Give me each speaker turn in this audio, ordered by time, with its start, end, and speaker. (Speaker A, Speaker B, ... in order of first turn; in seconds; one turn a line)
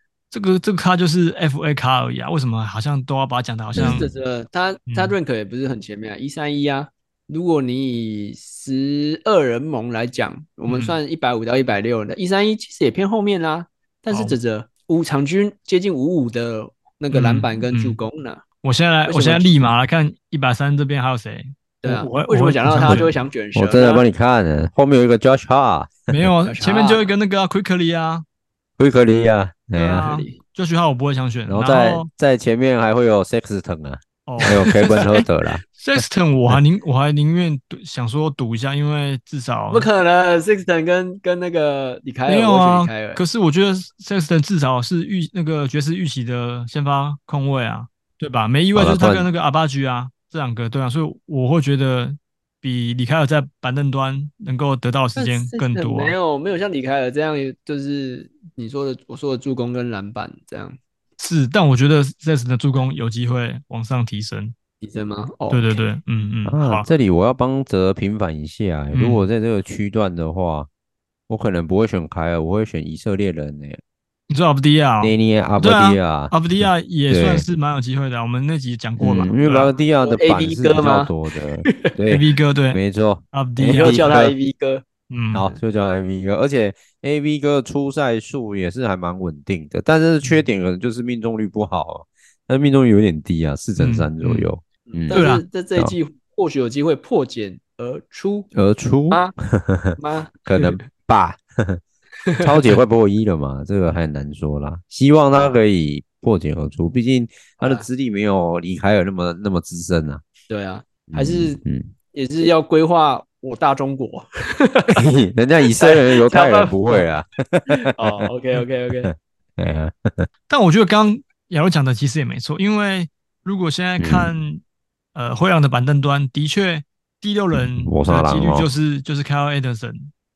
Speaker A: 0.3-4.1
Speaker B: 3.8-4.1
Speaker C: 3.8-18.4
Speaker A: 4.9-5.2
Speaker A: 10.7-11.0
Speaker A: 17.1-18.0
Speaker A: 18.6-23.1
Speaker C: 19.1-19.7
Speaker C: 21.8-24.0
Speaker B: 22.7-26.3
Speaker A: 26.1-28.2
Speaker C: 26.5-27.0
Speaker B: 28.8-30.1
Speaker A: 29.7-32.1
Speaker C: 30.0-30.4
Speaker B: 31.5-36.5
Speaker A: 34.3-39.9
Speaker C: 34.5-34.8
Speaker C: 39.7-43.2
Speaker A: 42.3-56.2
Speaker B: 48.7-49.3
Speaker C: 55.2-60.8
Speaker A: 61.2-64.5
Speaker C: 64.8-65.8
Speaker A: 65.5-66.9
Speaker B: 66.5-70.7
Speaker A: 68.9-69.2
Speaker B: 71.3-73.8
Speaker A: 74.3-79.7
Speaker B: 75.0-76.4
Speaker B: 77.1-77.5
Speaker B: 79.0-84.3
Speaker C: 80.0-81.1
Speaker C: 81.7-81.9
Speaker A: 82.1-82.8
Speaker A: 83.3-84.2
Speaker C: 83.8-84.8
Speaker A: 85.1-85.6
Speaker B: 85.3-95.2
Speaker A: 93.8-94.5
Speaker C: 94.9-98.5
Speaker A: 95.1-95.5
Speaker B: 98.5-101.8
Speaker C: 100.0-100.9
Speaker C: 102.2-102.7
Speaker B: 102.4-110.2
Speaker C: 107.6-107.9
Speaker C: 110.5-111.6
Speaker B: 111.1-111.9
Speaker C: 112.1-115.0
Speaker B: 115.0-118.3
Speaker C: 115.7-117.0
Speaker C: 117.7-119.1
Speaker B: 119.1-120.3
Speaker A: 120.5-124.6
Speaker B: 124.0-124.3
Speaker A: 125.2-130.1
Speaker B: 127.8-128.7